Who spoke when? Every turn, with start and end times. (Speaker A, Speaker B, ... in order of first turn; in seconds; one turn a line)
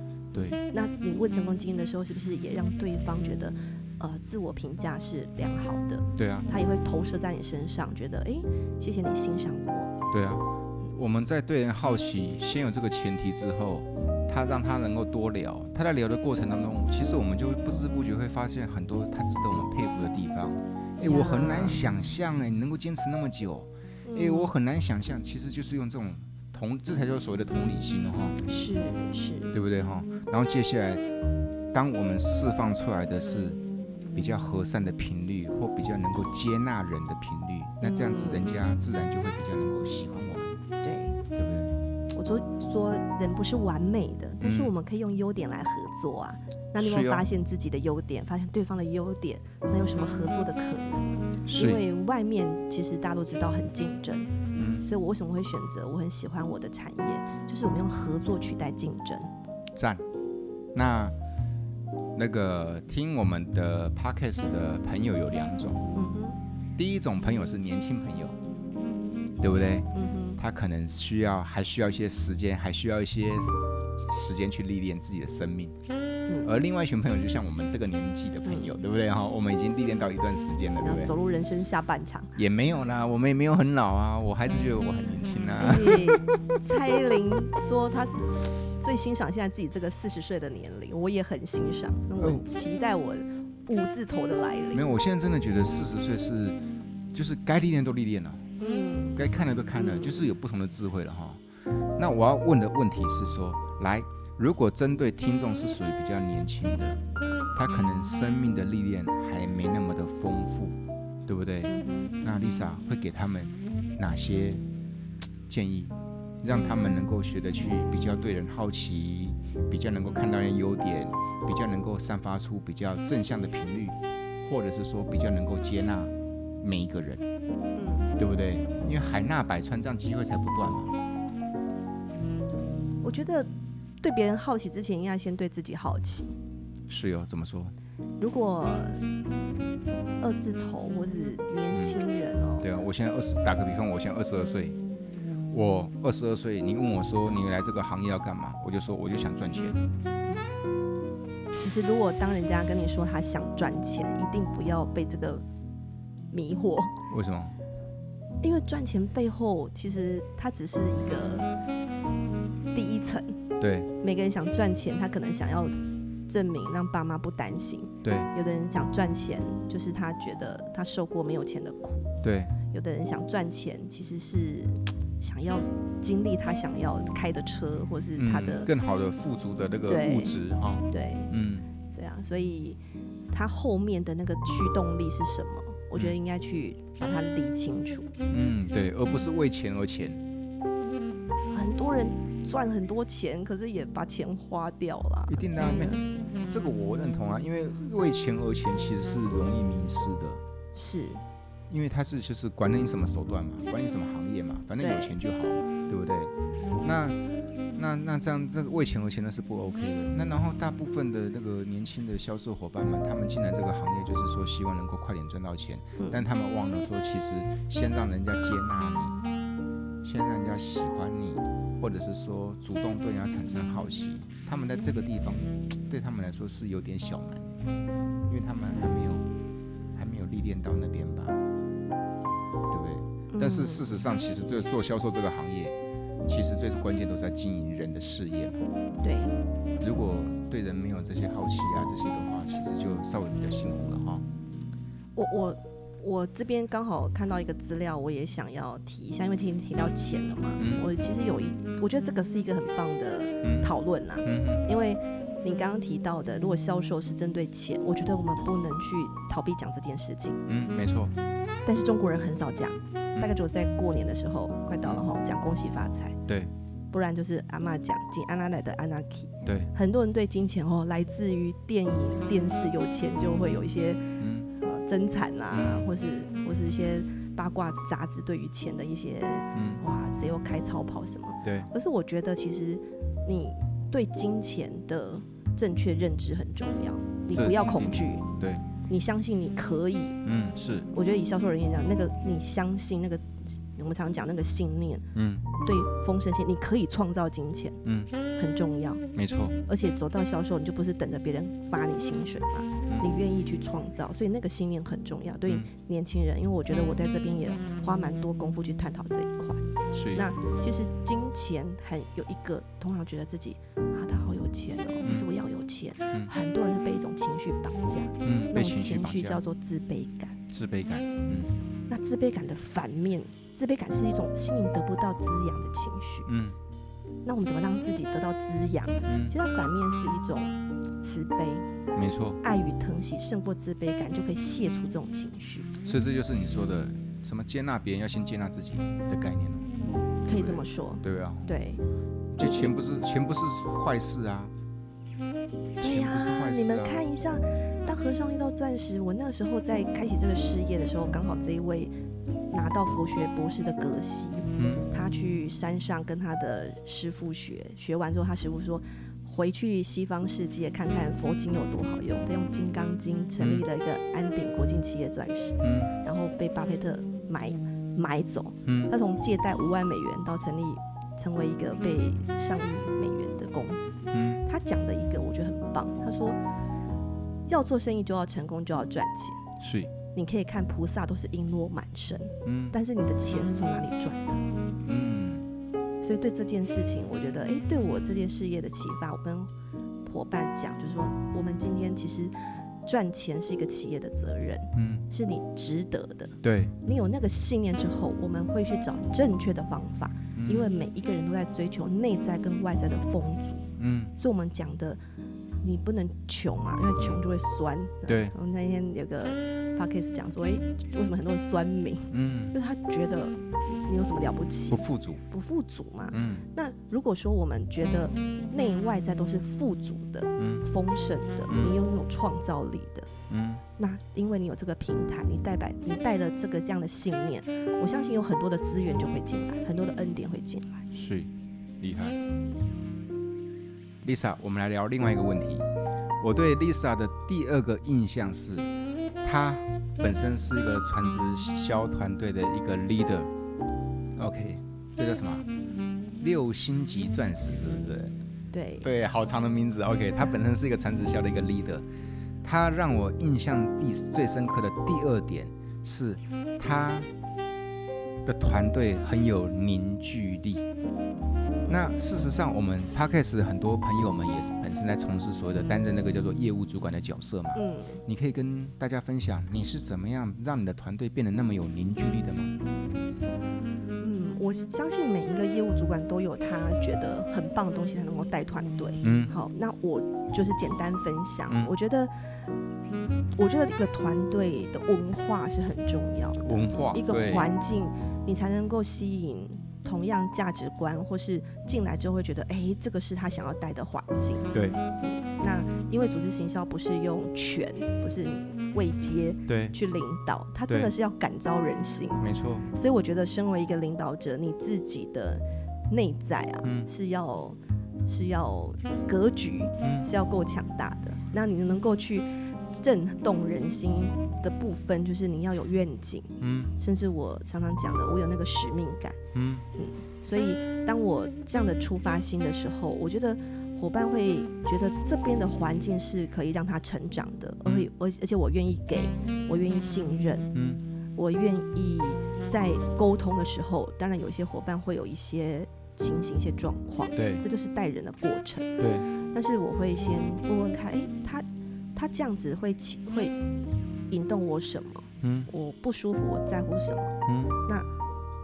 Speaker A: 0.3-9.9
Speaker B: 6.2-6.5
Speaker B: 10.1-28.4
Speaker A: 21.0-21.8
Speaker A: 24.1-24.5
Speaker A: 28.4-29.5
Speaker B: 29.5-31.0
Speaker B: 31.7-33.6
Speaker B: 34.1-40.6
Speaker A: 37.8-38.6
Speaker A: 40.8-41.2
Speaker B: 41.4-41.8
Speaker A: 42.1-59.3
Speaker B: 44.4-44.7
Speaker B: 46.8-47.2
Speaker B: 51.4-51.8
Speaker B: 54.5-54.9
Speaker B: 59.8-60.0
Speaker B: 60.8-61.1
Speaker B: 62.1-65.9
Speaker A: 65.9-66.4
Speaker B: 66.8-68.3
Speaker B: 69.4-75.8
Speaker A: 69.9-70.4
Speaker B: 76.4-81.1
Speaker A: 78.4-78.8
Speaker A: 80.8-82.3
Speaker B: 82.4-86.2
Speaker A: 85.6-94.8
Speaker B: 92.2-92.4
Speaker B: 94.7-96.6
Speaker B: 97.1-98.5
Speaker A: 98.6-99.2
Speaker B: 99.1-101.4
Speaker A: 99.8-100.2
Speaker B: 102.0-107.0
Speaker B: 107.5-114.6
Speaker A: 111.7-112.1
Speaker B: 115.5-127.2
Speaker A: 116.5-116.8
Speaker A: 127.8-128.1
Speaker B: 128.2-130.9
Speaker A: 133.0-133.5
Speaker A: 134.0-136.3
Speaker B: 136.9-137.7
Speaker A: 138.2-139.0
Speaker A: 140.2-142.7
Speaker B: 141.7-142.0
Speaker B: 142.6-144.8
Speaker B: 145.5-149.8
Speaker A: 151.5-155.4
Speaker A: 156.3-156.9
Speaker B: 157.1-157.5
Speaker A: 158.4-161.5
Speaker A: 162.7-163.4
Speaker B: 163.6-163.9
Speaker A: 164.0-165.7
Speaker A: 166.3-172.1
Speaker B: 168.0-168.3
Speaker B: 172.2-172.5
Speaker A: 172.7-178.7
Speaker B: 178.2-181.7
Speaker A: 179.9-180.3
Speaker A: 180.9-181.3
Speaker A: 181.9-182.8
Speaker A: 183.3-188.1
Speaker B: 188.3-190.2
Speaker A: 191.5-196.0
Speaker B: 195.3-200.4
Speaker A: 200.7-201.2
Speaker B: 201.7-207.2
Speaker A: 204.8-205.1
Speaker B: 207.8-219.2
Speaker B: 220.0-227.6
Speaker B: 228.3-229.2
Speaker B: 229.9-231.4
Speaker B: 232.7-235.7
Speaker A: 233.3-233.9
Speaker B: 236.3-238.6
Speaker A: 239.0-239.3
Speaker B: 239.8-244.2
Speaker A: 245.1-260.4
Speaker B: 250.6-250.8
Speaker B: 253.4-253.7
Speaker B: 254.2-254.6
Speaker B: 260.5-261.1
Speaker A: 261.6-266.2
Speaker A: 266.9-274.1
Speaker B: 269.4-269.7
Speaker B: 274.2-274.5
Speaker A: 274.6-288.2
Speaker B: 275.5-275.9
Speaker B: 279.5-279.8
Speaker B: 281.4-281.7
Speaker B: 287.3-288.6
Speaker A: 288.9-290.2
Speaker B: 290.2-290.9
Speaker A: 290.9-295.1
Speaker B: 295.1-295.4
Speaker A: 295.6-297.8
Speaker B: 297.9-298.1
Speaker A: 298.4-299.0
Speaker B: 299.1-299.6
Speaker A: 299.7-309.6
Speaker B: 309.9-310.2
Speaker A: 310.1-320.4
Speaker B: 318.2-319.4
Speaker B: 320.5-321.6
Speaker A: 321.9-326.3
Speaker B: 326.3-326.6
Speaker A: 327.2-331.6
Speaker B: 329.1-329.4
Speaker B: 331.9-332.4
Speaker A: 332.4-335.7
Speaker B: 335.8-339.7
Speaker A: 340.2-341.8
Speaker B: 340.3-341.6
Speaker B: 342.3-344.5
Speaker A: 342.4-342.7
Speaker B: 345.8-347.0
Speaker A: 345.8-351.9
Speaker A: 352.5-376.4
Speaker B: 354.6-354.8
Speaker B: 363.4-363.6
Speaker B: 365.6-365.9
Speaker B: 368.6-368.9
Speaker B: 374.1-374.4
Speaker A: 377.5-379.4
Speaker B: 379.6-379.9
Speaker A: 380.1-384.4
Speaker B: 382.4-382.8
Speaker B: 384.9-385.4
Speaker A: 386.0-389.5
Speaker A: 390.1-403.6
Speaker B: 394.7-395.1
Speaker B: 396.4-396.7
Speaker B: 400.4-400.7
Speaker B: 403.8-404.1
Speaker A: 404.2-405.0
Speaker A: 405.6-423.1
Speaker B: 408.1-408.3
Speaker B: 412.1-412.6
Speaker B: 414.7-415.2
Speaker B: 416.1-416.4
Speaker B: 420.4-420.6
Speaker B: 421.5-421.7
Speaker B: 423.3-423.6
Speaker A: 423.8-430.8
Speaker B: 430.9-431.3
Speaker B: 431.8-432.2
Speaker B: 434.0-435.7
Speaker B: 436.2-438.7
Speaker B: 439.2-443.3
Speaker B: 444.1-445.4
Speaker B: 446.2-448.1
Speaker A: 448.5-448.9
Speaker B: 448.8-451.9
Speaker B: 452.4-457.1
Speaker B: 458.2-460.6
Speaker A: 461.6-461.9
Speaker B: 461.7-472.6
Speaker A: 467.6-468.0
Speaker A: 474.0-482.1
Speaker B: 479.0-479.3
Speaker A: 483.4-494.5
Speaker B: 486.4-487.5
Speaker B: 494.5-494.8
Speaker A: 495.0-519.2
Speaker B: 499.5-499.7
Speaker B: 502.2-502.7
Speaker B: 509.8-510.1
Speaker B: 516.4-516.7
Speaker B: 519.3-519.6
Speaker A: 519.8-530.5
Speaker B: 530.5-530.8
Speaker A: 531.1-538.8
Speaker B: 537.1-537.4
Speaker B: 538.8-539.1
Speaker A: 539.3-543.4
Speaker A: 544.1-547.1
Speaker B: 545.2-545.5
Speaker B: 547.3-547.6